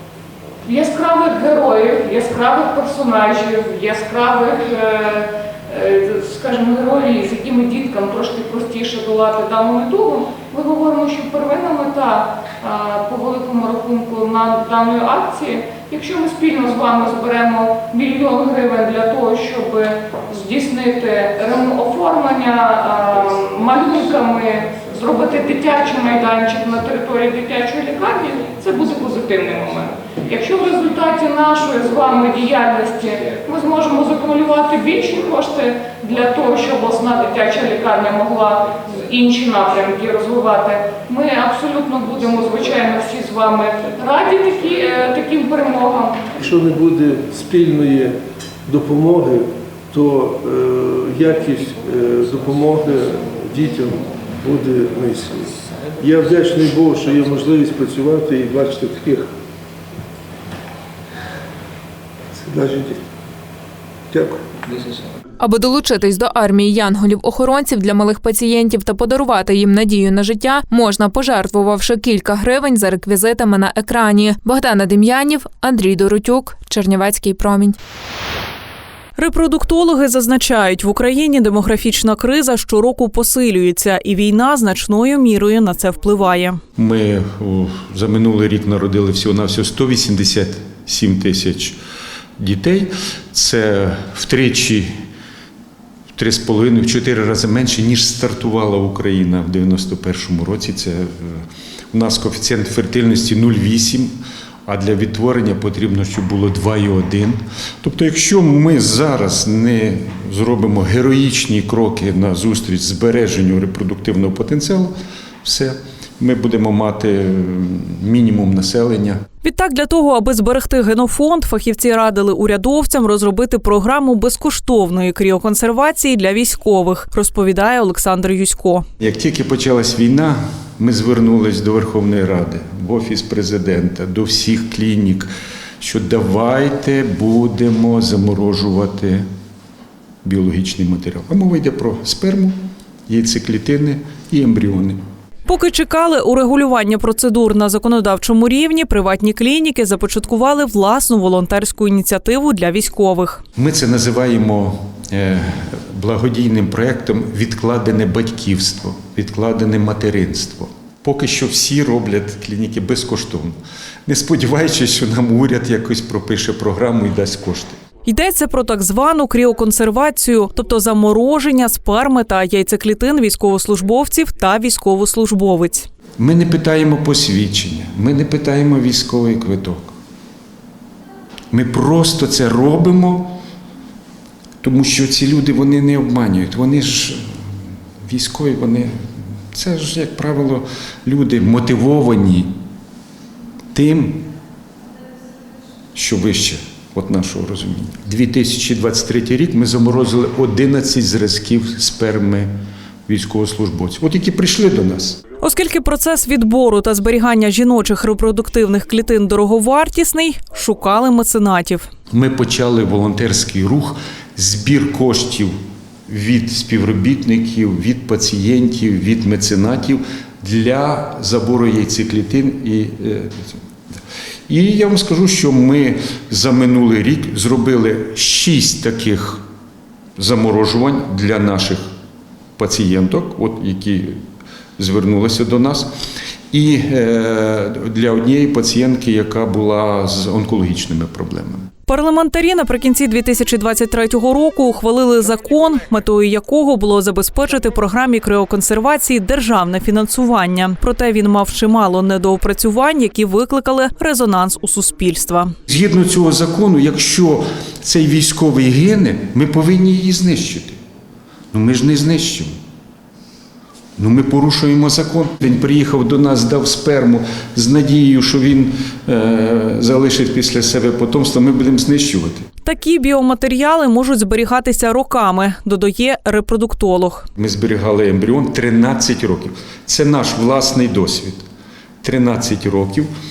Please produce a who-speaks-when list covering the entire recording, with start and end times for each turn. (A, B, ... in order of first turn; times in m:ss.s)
0:00.6-0:46.2 A
0:46.4-0:59.3 B
1:02.4-1:03.0 B
1:04.1-1:04.4 B
1:05.4-1:17.8 C
1:19.2-1:26.6 D
1:26.8-1:31.8 E
1:32.4-1:34.9 E
1:36.2-1:44.1 E
1:44.7-1:59.2 E
1:59.4-2:08.8 D
2:09.0-2:19.2 E
2:20.2-2:22.6 E
2:23.1-2:25.0 E
2:25.5-2:33.4 D
2:33.6-2:47.8 E
2:48.1-2:55.9 D
2:56.2-2:59.9 E
3:01.5-3:03.4 E
3:04.6-3:07.2 E
3:08.0-3:09.0 E
3:09.5-3:12.5 E
3:13.7-3:14.3 E
3:16.0-3:22.5 E
3:23.1-3:25.2 E
3:25.4-3:31.9 D
3:32.1-3:35.5 E
3:36.1-3:43.6 E
3:44.5-3:49.4 E
3:50.2-3:51.8 E
3:52.6-3:54.2 E
3:54.8-3:55.9 E
3:56.5-4:01.7 E
4:01.9-4:15.5 D
4:15.7-4:20.8 E
4:21.5-4:22.5 E
4:24.0-4:32.5 E
4:32.6-4:37.2 D
4:37.4-4:41.4 E
4:42.0-4:43.1 E